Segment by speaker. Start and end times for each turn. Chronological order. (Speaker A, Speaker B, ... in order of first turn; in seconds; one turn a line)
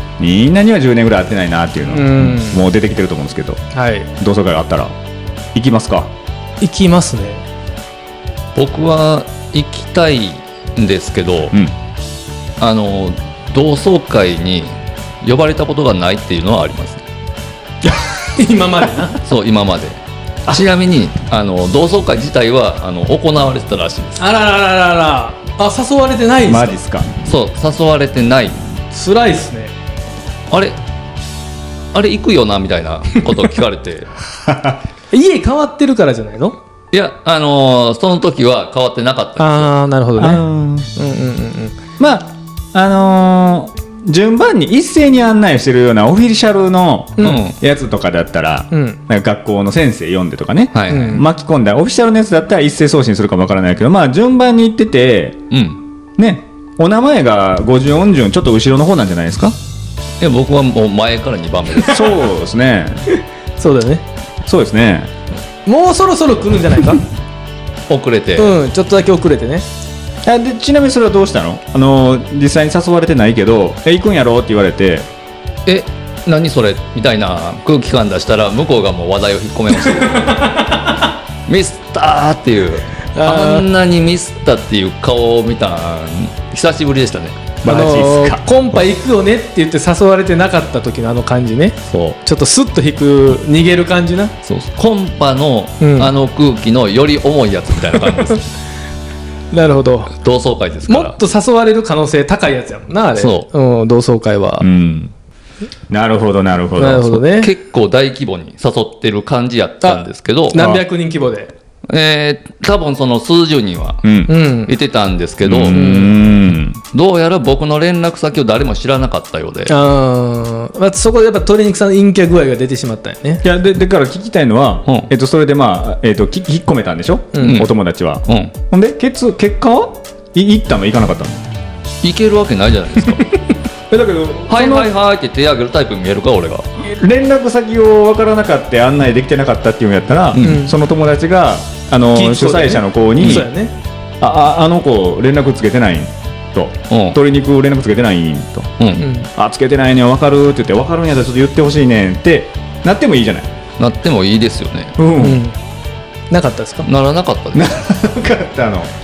Speaker A: 0.2-3.6
Speaker B: 1.9-2.6
Speaker B: 3.7-4.1
Speaker A: 4.2-4.9
Speaker A: 5.5-6.1
Speaker B: 6.6-7.4
Speaker C: 8.5-11.5
Speaker C: 12.6-17.0
Speaker B: 18.4-19.2
Speaker C: 19.2-24.2
Speaker B: 24.2-26.8
Speaker A: 26.4-27.1
Speaker C: 27.2-28.6
Speaker B: 28.9-29.7
Speaker C: 30.5-30.8
Speaker C: 31.9-34.1
Speaker A: 34.5-34.8
Speaker B: 35.1-36.6
Speaker C: 36.9-39.7
Speaker B: 39.4-40.4
Speaker A: 40.2-40.9
Speaker B: 41.0-41.8
Speaker A: 42.0-55.4
Speaker B: 47.2-47.4
Speaker C: 47.2-47.5
Speaker B: 48.7-49.0
Speaker C: 50.7-51.2
Speaker B: 50.9-51.2
Speaker C: 55.5-55.8
Speaker A: 56.2-59.6
Speaker C: 60.2-62.2
Speaker A: 61.8-63.0
Speaker B: 63.6-64.0
Speaker A: 64.4-65.1
Speaker B: 65.7-67.0
Speaker C: 67.9-68.5
Speaker B: 68.3-69.7
Speaker A: 70.2-75.1
Speaker C: 75.7-80.6
Speaker B: 80.1-81.0
Speaker C: 81.5-87.5
Speaker B: 83.2-83.7
Speaker A: 87.6-88.4
Speaker B: 87.6-94.3
Speaker C: 91.9-92.2
Speaker C: 94.4-98.5
Speaker B: 95.8-96.1
Speaker B: 98.0-98.3
Speaker B: 99.5-100.1
Speaker C: 100.2-101.1
Speaker B: 100.9-104.7
Speaker C: 103.1-103.5
Speaker A: 104.6-105.1
Speaker A: 105.9-107.2
Speaker B: 106.8-107.5
Speaker C: 107.2-110.7
Speaker B: 109.8-111.5
Speaker A: 110.6-110.8
Speaker C: 111.9-116.1
Speaker A: 114.0-114.3
Speaker B: 114.3-114.7
Speaker A: 115.4-116.8
Speaker B: 115.7-116.1
Speaker C: 116.9-119.7
Speaker B: 119.7-123.4
Speaker A: 123.4-131.4
Speaker C: 124.8-125.1
Speaker B: 127.3-127.6
Speaker C: 127.4-127.7
Speaker C: 128.2-128.5
Speaker C: 132.0-133.2
Speaker A: 133.9-134.9
Speaker C: 134.5-136.7
Speaker A: 136.8-143.5
Speaker C: 140.3-140.6
Speaker B: 140.4-140.7
Speaker B: 142.1-143.7
Speaker C: 143.2-143.5
Speaker A: 144.2-148.7
Speaker C: 146.9-147.2
Speaker C: 148.8-149.1
Speaker B: 149.0-149.3
Speaker A: 149.3-153.5
Speaker C: 153.8-154.9
Speaker A: 155.0-155.4
Speaker B: 155.2-155.6
Speaker B: 156.3-156.9
Speaker C: 156.8-157.7
Speaker A: 157.5-158.9